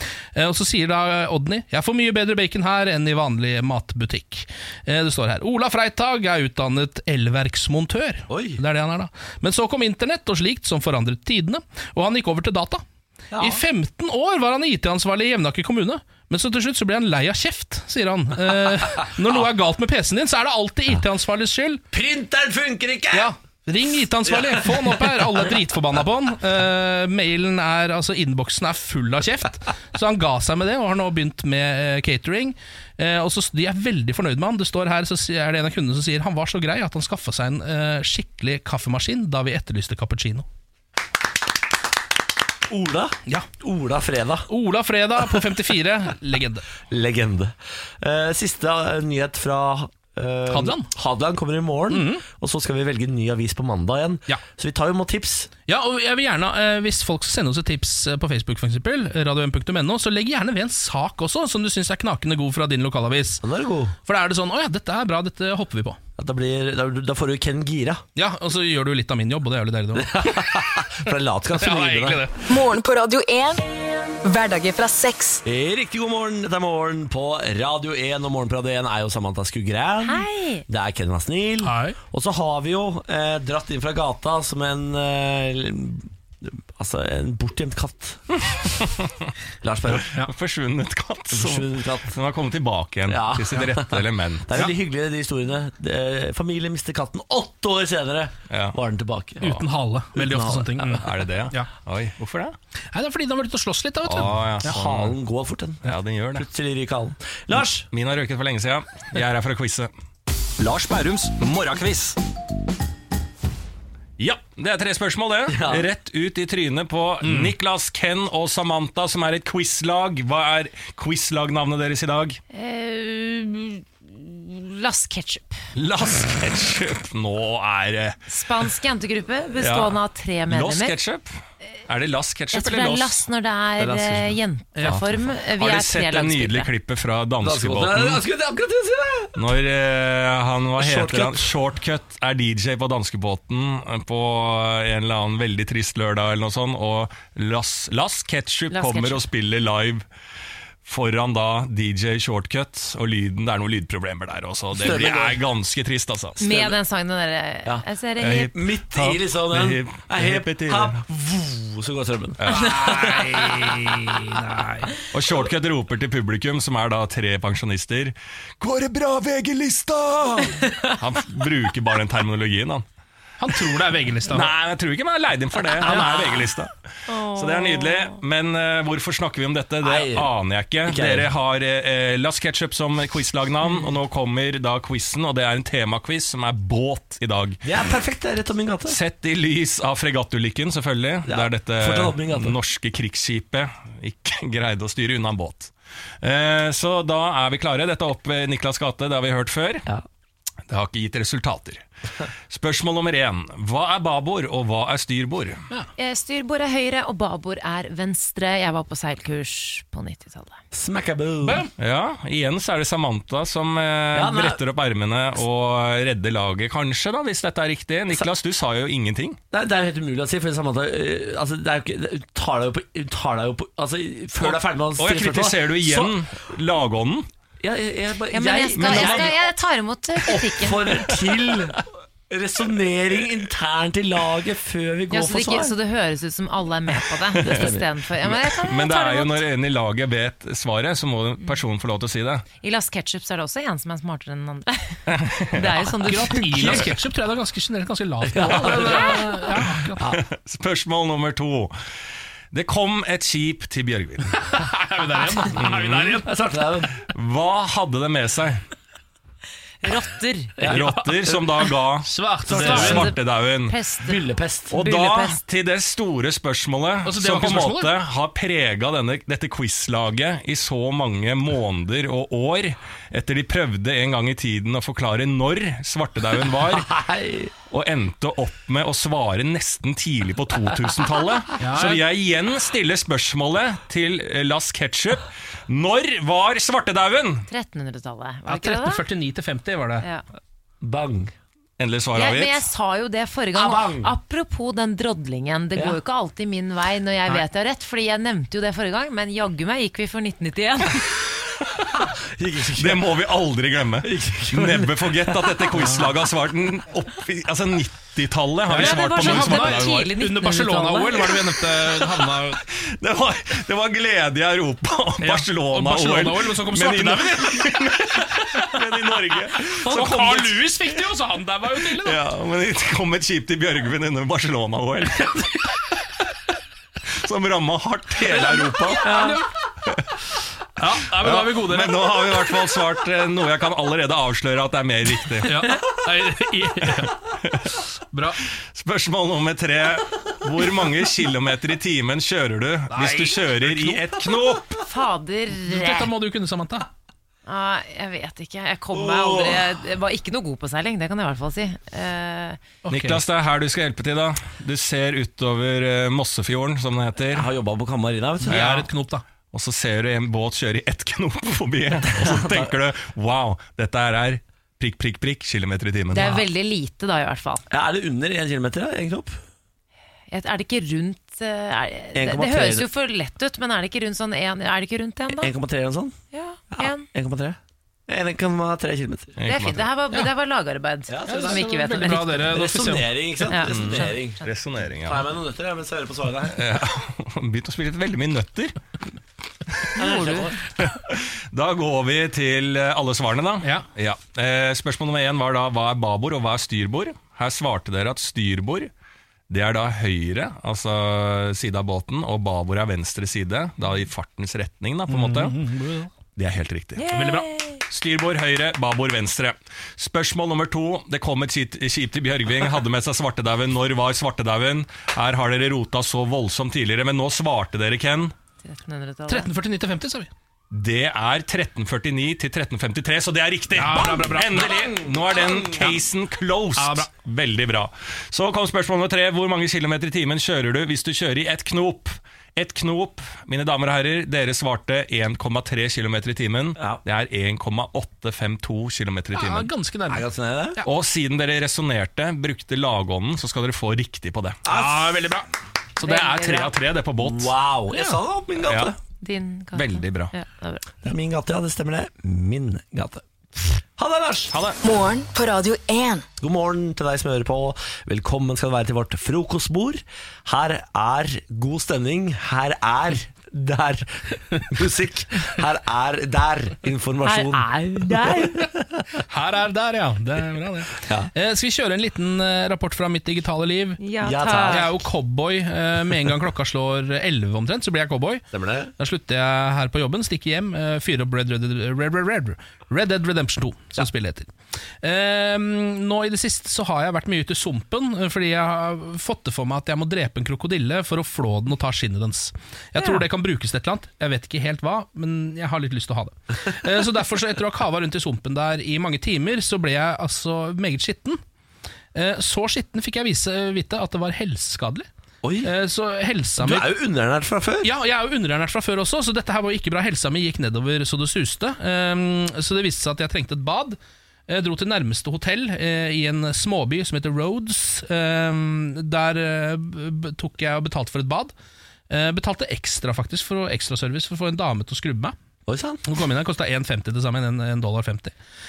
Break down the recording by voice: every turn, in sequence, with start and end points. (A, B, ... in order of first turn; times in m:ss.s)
0:00.3-0:12.8 A
0:08.3-0:08.6 B
0:13.3-0:13.6 B
0:13.4-0:21.8 A
0:21.9-0:23.3 B
0:23.1-0:40.4 A
0:24.2-0:25.4 B
0:42.7-0:44.5 B
0:44.5-0:46.6 A
0:46.9-0:55.5 B
0:50.5-0:50.9 A
0:51.9-0:52.2 A
0:55.7-1:03.4 A
1:03.4-1:04.0 B
1:04.1-1:06.0 A
1:06.2-1:08.0 B
1:08.2-1:10.6 A
1:09.9-1:12.2 B
1:11.6-1:12.4 A
1:12.5-1:13.6 C
1:14.2-1:15.4 C
1:15.4-1:28.2 B
1:20.0-1:20.6 D
1:21.6-1:22.0 A
1:29.6-1:30.1 B
1:30.2-1:34.6 E
1:31.3-1:32.2 B
1:33.1-1:41.0 B
1:38.5-1:38.8 E
1:39.4-1:41.7 A
1:41.0-1:42.6 E
1:42.9-1:44.8 A
1:44.0-1:45.1 E
1:44.6-1:47.9 B
1:45.8-1:46.4 E
1:47.8-1:49.9 E
1:50.6-1:52.2 E
1:54.2-2:02.4 E
1:55.5-1:55.8 B
1:57.2-1:57.5 A
2:02.5-2:05.6 D
2:05.8-2:08.2 E
2:08.3-2:11.0 D
2:09.6-2:10.0 E
2:10.5-2:13.2 E
2:12.5-2:16.7 D
2:13.8-2:14.3 B
2:14.8-2:18.2 E
2:17.4-2:19.4 B
2:19.4-2:30.0 E
2:20.8-2:21.5 B
2:28.7-2:29.2 D
2:30.8-2:36.4 E
2:34.7-2:35.4 B
2:36.4-2:38.5 D
2:36.4-2:36.7 B
2:37.6-2:43.7 B
2:38.2-2:41.0 E
2:42.4-2:43.8 E
2:42.6-2:44.8 A
2:45.1-2:52.8 E
2:53.4-2:54.5 A
2:54.3-2:56.7 E
2:57.1-2:58.2 D
2:57.3-3:07.6 E
2:59.8-3:00.3 B
3:00.8-3:01.3 B
3:07.6-3:09.0 B
3:08.9-3:19.9 E
3:11.3-3:12.6 B
3:20.7-3:21.8 E
3:22.5-3:25.6 E
3:26.0-3:30.6 D
3:30.7-3:31.7 B
3:31.4-3:31.7 A
3:31.8-3:39.4 E
3:34.1-3:34.6 B
3:39.5-3:46.2 B
3:44.4-3:47.3 E
3:47.6-3:49.4 B
3:48.3-3:51.0 D
3:48.8-3:49.3 E
3:50.2-3:51.8 B
3:52.3-3:55.7 B
3:55.1-3:59.4 D
3:57.4-3:57.7 E
3:57.4-3:57.9 B
3:58.3-4:02.4 E
4:02.6-4:06.9 D
4:05.1-4:05.6 E
4:06.0-4:10.0 A
4:08.3-4:10.2 B
4:10.0-4:11.7 E
4:12.5-4:14.3 E
4:14.5-4:16.3 A
4:15.5-4:16.2 E
4:16.2-4:17.0 B
4:17.0-4:18.6 E
4:19.8-4:20.5 D
4:20.6-4:21.4 B
4:20.6-4:23.8 E
4:20.7-4:21.0 A
4:22.0-4:23.1 A
4:22.4-4:23.0 B
4:22.5-4:25.4 D
4:24.0-4:24.8 B
4:24.7-4:36.9 E
4:27.0-4:27.9 A
4:36.9-4:37.5 B
4:37.7-4:47.5 E
4:41.6-4:42.0 A
4:47.5-4:49.0 D
4:48.5-4:50.0 A
4:50.8-4:51.3 B
4:51.8-4:52.6 E
4:52.1-5:01.1 D
4:53.5-4:54.1 B
5:01.9-5:03.1 B
5:02.8-5:10.1 E
5:04.0-5:06.1 B
5:05.8-5:06.0 A
5:08.7-5:12.6 A
5:08.7-5:11.3 D
5:12.8-5:20.6 E
5:15.2-5:18.2 A
5:19.6-5:22.2 A
5:21.9-5:25.6 E
5:27.2-5:29.2 E
5:28.3-5:29.5 A
5:29.0-5:29.4 D
5:30.8-5:32.3 A
5:31.2-5:35.6 E
5:35.4-5:37.2 A
5:37.4-5:37.7 E
5:38.1-5:38.4 A
5:38.7-5:44.8 E
5:42.9-5:44.0 A
5:44.8-5:46.1 D
5:45.6-5:46.9 A
5:47.4-5:52.6 D
5:48.9-5:49.7 B
5:52.8-5:53.2 A
5:52.9-5:57.4 E
5:57.3-5:58.9 B
5:58.4-5:59.2 A
5:59.5-6:06.4 E
6:02.1-6:02.7 B
6:06.1-6:07.6 D
6:07.7-6:09.4 B
6:10.3-6:15.5 D
6:12.1-6:12.9 B
6:15.3-6:16.2 B
6:16.3-6:17.0 D
6:16.7-6:19.4 B
6:19.4-6:19.9 E
6:19.4-6:22.4 D
6:21.1-6:24.4 B
6:21.3-6:23.1 A
6:23.5-6:24.2 D
6:23.7-6:25.2 E
6:25.0-6:26.6 B
6:26.6-6:28.7 E
6:29.9-6:30.6 B
6:30.0-6:30.3 D
6:30.8-6:38.9 E
6:39.5-6:45.6 E
6:45.1-6:46.1 A
6:46.4-6:47.1 E
6:47.0-6:47.8 D
6:47.1-6:47.4 A
6:47.9-6:58.3 E
6:58.6-6:59.5 D
6:59.3-7:00.3 A
7:00.7-7:19.7 E
7:03.7-7:05.0 A
7:04.8-7:05.9 B
7:06.8-7:07.1 A
7:16.8-7:17.0 B
7:19.3-7:20.2 A
7:20.1-7:20.8 B
7:20.8-7:24.6 E
7:24.6-7:25.1 B
7:24.7-7:25.4 A
7:26.0-7:27.5 E
7:26.0-7:26.7 D
7:27.2-7:29.0 B
7:28.6-7:28.9 E
7:29.2-7:30.8 D
7:29.7-7:30.3 E
7:31.0-7:34.6 B
7:34.5-7:34.8 E
7:34.8-7:36.2 C
7:36.4-7:49.0 B
7:47.2-7:48.6 D
7:49.3-7:54.0 A
7:51.0-7:51.3 B
7:54.0-7:54.9 D
7:54.2-7:55.0 B
7:54.5-7:58.4 A
7:58.5-7:58.9 B
7:59.0-8:04.5 A
8:05.0-8:21.4 A
8:22.1-8:25.1 A
8:25.4-8:25.7 B
8:25.6-8:26.9 A
8:26.6-8:27.9 B
8:27.8-8:41.5 A
8:42.1-8:45.3 A
8:45.7-8:46.0 B
8:46.0-8:48.3 A